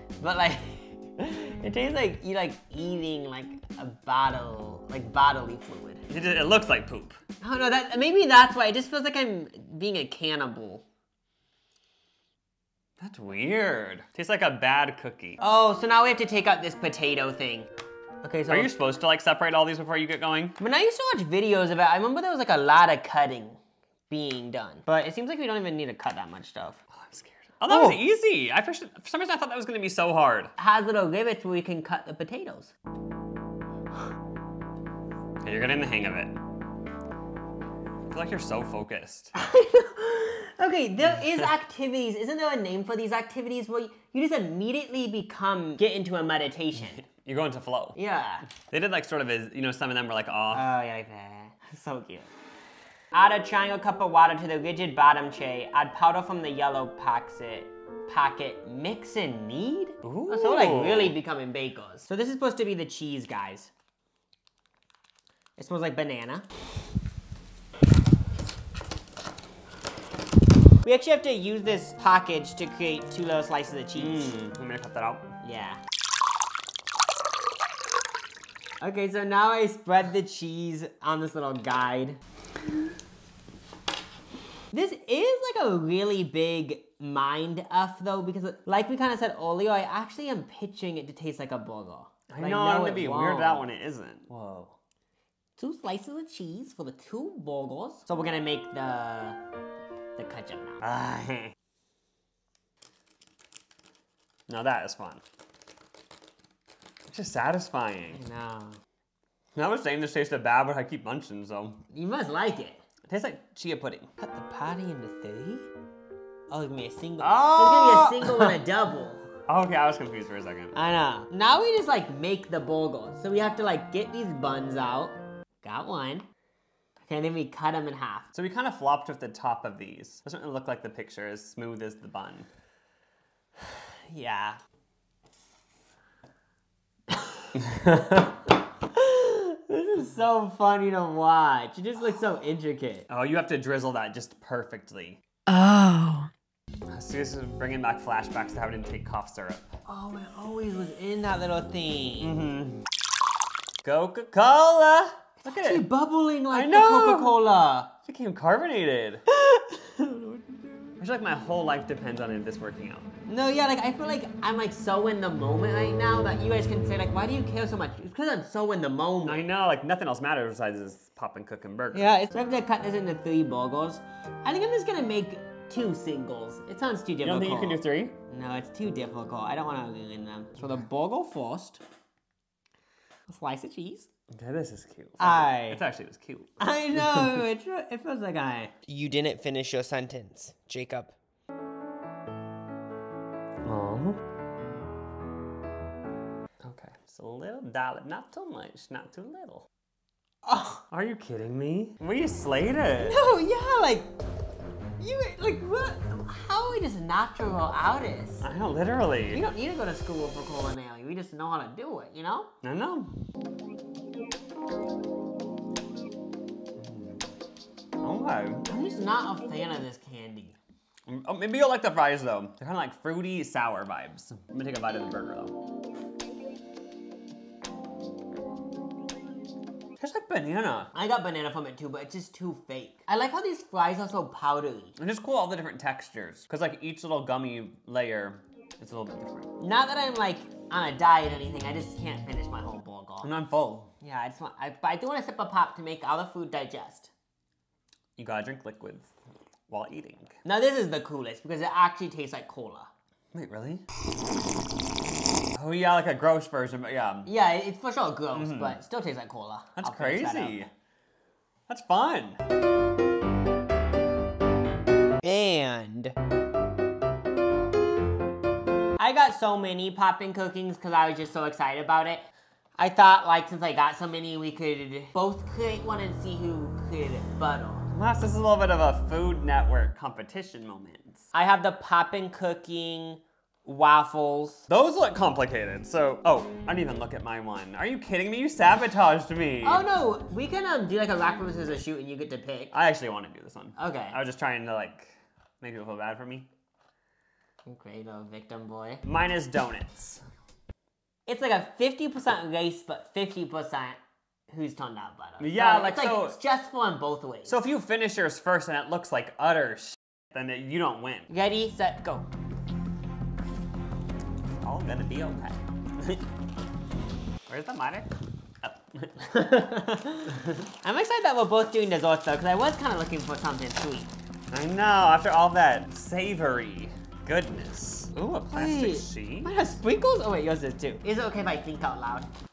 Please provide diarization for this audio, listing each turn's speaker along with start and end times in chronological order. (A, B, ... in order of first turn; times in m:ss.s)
0:00.2-0:06.0 A
0:06.1-0:07.2 B
0:07.4-0:10.8 A
0:13.0-0:15.4 B
0:15.4-0:17.7 A
0:18.2-0:18.7 A
0:18.5-0:20.6 B
0:20.6-0:23.6 A
0:24.1-0:26.8 A
0:26.9-0:30.5 B
0:27.7-0:28.0 A
0:30.6-0:32.7 A
0:35.4-0:36.4 B
0:38.1-0:39.3 B
0:39.3-0:47.0 A
0:47.0-0:48.0 B
0:48.0-0:48.4 A
0:48.6-0:50.7 B
0:50.5-0:52.3 A
0:53.1-1:03.7 A
1:00.0-1:01.1 B
1:05.6-1:06.4 A
1:10.8-1:14.3 A
1:13.9-1:15.3 B
1:15.4-1:15.8 A
1:18.8-1:22.2 A
1:24.7-1:33.6 A
1:32.3-1:34.7 B
1:35.6-1:39.4 A
1:40.2-1:40.8 A
1:40.8-1:41.5 B
1:44.5-1:45.2 B
1:47.1-1:48.2 B
1:48.1-1:48.8 A
1:49.5-1:51.8 B
1:51.9-1:52.8 A
1:53.1-1:54.1 B
1:54.2-1:55.7 A
1:56.5-1:59.2 A
1:57.2-1:58.6 B
1:59.5-2:00.7 B
2:00.7-2:06.2 A
2:07.0-2:08.3 A
2:08.3-2:12.5 B
2:14.1-2:14.6 A
2:17.6-2:18.2 B
2:18.9-2:23.1 A
2:23.1-2:25.2 B
2:25.5-2:26.3 A
2:26.9-2:29.7 B
2:29.8-2:32.3 A
2:32.2-2:32.8 B
2:33.8-2:35.8 B
2:35.4-2:37.9 A
2:36.5-2:37.4 B
2:38.0-2:39.2 B
2:39.3-2:40.6 A
2:41.0-2:43.1 B
2:43.2-2:49.4 A
2:49.2-2:52.1 B
2:51.9-3:01.8 A
2:57.2-2:58.2 B
3:03.3-3:04.1 A
3:04.3-3:07.4 B
3:05.2-3:05.8 A
3:06.6-3:11.2 A
3:13.6-3:14.2 B
3:16.6-3:19.7 B
3:20.4-3:20.8 A
3:20.9-3:23.2 B
3:23.0-3:24.1 A
3:25.0-3:28.4 A
3:28.4-3:29.4 B
3:29.3-3:32.5 A
3:32.6-3:33.1 B
3:36.8-3:37.2 B
3:38.0-3:38.7 B
3:38.7-3:40.6 A
3:41.0-3:45.5 B
3:50.0-3:50.9 B
3:50.9-3:54.9 A
3:55.0-3:59.5 B
3:59.6-4:03.3 A
4:03.2-4:03.9 B
4:04.0-4:07.1 A
4:08.2-4:09.1 B
4:09.7-4:10.4 B
4:10.4-4:12.9 A
4:13.3-4:13.8 B
4:15.5-4:17.3 B
4:17.2-4:20.7 A
4:18.3-4:18.8 B
4:19.8-4:20.7 B
4:21.7-4:22.4 B
4:25.2-4:26.1 A
4:29.0-4:37.9 A
4:37.9-4:41.2 B
4:41.3-4:44.7 A
4:44.7-4:49.8 B
4:49.6-4:52.7 A
4:52.7-4:56.5 B
4:53.8-4:54.2 A
4:57.6-4:59.0 A
4:59.0-5:00.2 B
5:01.3-5:07.6 A
5:05.4-5:06.4 B
5:07.4-5:11.3 B
5:11.3-5:12.2 A
5:14.6-5:16.2 B
5:17.5-5:18.1 B
5:18.6-5:19.3 B
5:19.3-5:24.1 A
5:24.5-5:29.5 B
5:28.5-5:32.3 A